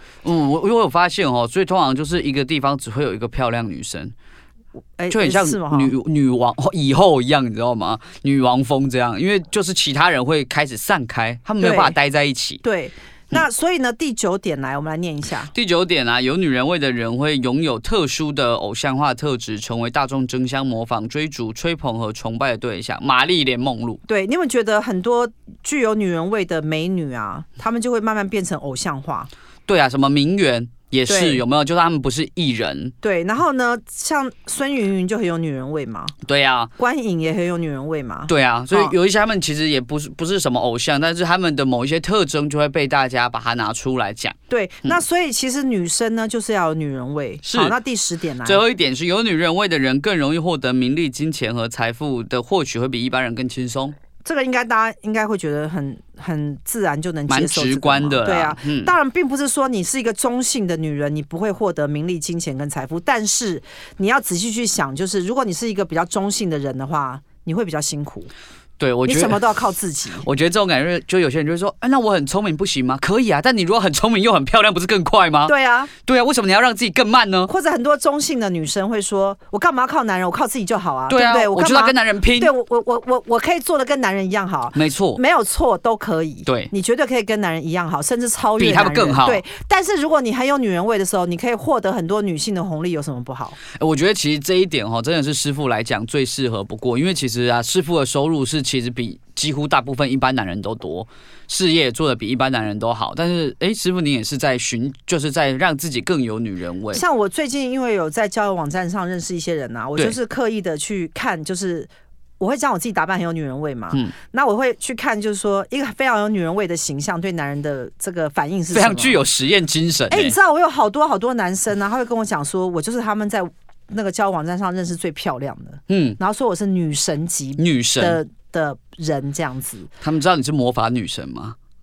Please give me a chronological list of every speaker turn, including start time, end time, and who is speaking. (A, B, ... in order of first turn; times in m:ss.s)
0:00.2-0:04.1 A
0:05.0-0:05.9 B
0:05.1-0:12.6 A
0:11.6-0:11.9 B
0:12.6-0:15.5 B
0:15.5-0:24.0 A
0:24.1-0:29.3 B
0:29.6-0:32.9 A
0:31.1-0:31.4 B
0:33.0-0:36.1 B
0:36.2-0:36.7 A
0:36.8-0:38.9 B
0:38.3-0:45.0 A
0:44.5-0:48.6 B
0:47.4-0:47.7 A
0:48.4-0:53.9 A
0:54.2-1:08.3 B
0:57.3-0:58.9 A
1:08.8-1:09.4 A
1:09.0-1:10.3 B
1:10.2-1:17.5 A
1:15.4-1:15.9 B
1:17.5-1:33.6 B
1:21.1-1:22.5 A
1:24.7-1:25.2 A
1:26.4-1:26.7 A
1:28.6-1:29.4 A
1:33.7-1:47.0 A
1:46.9-1:51.9 B
1:52.4-1:59.2 B
1:58.7-2:00.3 A
2:00.1-2:09.9 B
2:05.9-2:06.2 A
2:07.6-2:08.2 A
2:10.0-2:11.6 A